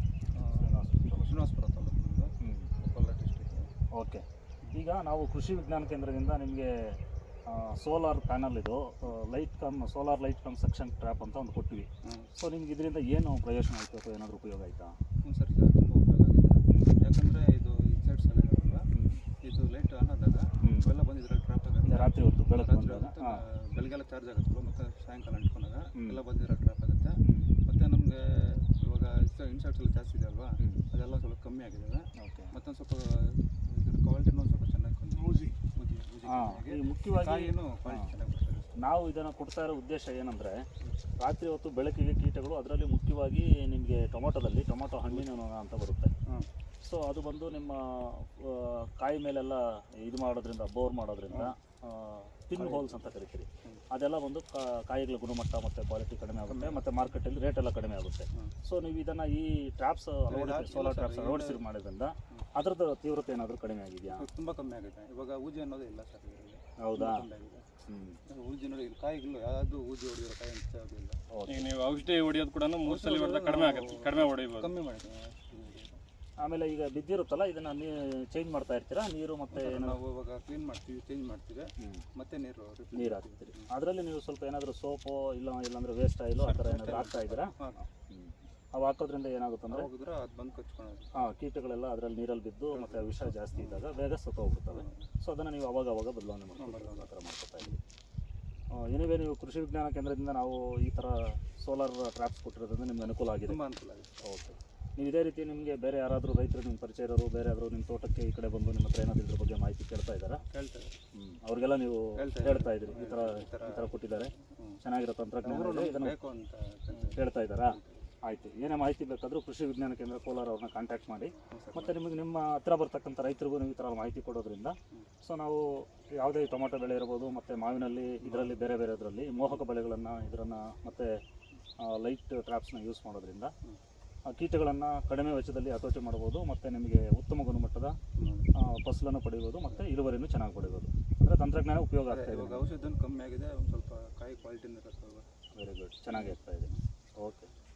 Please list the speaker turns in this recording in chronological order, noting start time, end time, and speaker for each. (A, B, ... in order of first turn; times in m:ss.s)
0:00.3-0:03.7 A
0:00.6-0:01.4 B
0:02.4-0:02.7 B
0:03.9-0:06.7 B
0:07.5-0:14.9 B
0:12.0-0:12.3 A
0:15.2-0:18.8 A
0:16.7-0:16.9 B
0:18.9-0:19.2 B
0:19.4-0:38.8 A
0:20.6-0:20.9 B
0:21.9-0:23.4 B
0:27.2-0:27.5 B
0:32.2-0:32.5 B
0:36.2-0:38.1 B
0:38.8-0:40.6 B
0:41.2-0:46.1 B
0:46.8-1:04.3 B
0:52.5-0:53.0 A
0:56.5-0:56.9 A
1:00.3-1:01.6 A
1:04.1-1:07.6 A
1:06.8-1:07.2 B
1:07.8-1:08.2 B
1:08.3-1:11.2 A
1:11.3-1:11.7 B
1:11.5-1:14.7 C
1:12.8-1:16.0 A
1:16.4-1:20.0 B
1:19.5-1:23.7 A
1:21.8-1:22.0 B
1:22.9-1:29.9 B
1:26.4-1:27.8 A
1:29.7-1:31.1 A
1:31.1-1:37.8 B
1:32.7-1:33.9 A
1:34.7-1:35.1 A
1:36.6-1:37.8 A
1:38.7-1:43.6 B
1:43.4-1:44.1 A
1:44.2-1:50.4 B
1:50.4-1:51.0 A
1:51.1-1:54.3 B
1:52.2-1:54.8 A
1:54.8-1:56.1 B
1:55.4-1:58.1 A
1:56.9-2:11.1 B
2:01.5-2:02.0 A
2:08.2-2:08.5 A
2:11.8-2:13.5 B
2:14.2-2:18.0 B
2:18.2-2:18.5 A
2:18.6-2:22.7 B
2:22.1-2:25.2 A
2:25.5-2:27.5 B
2:26.1-2:26.8 A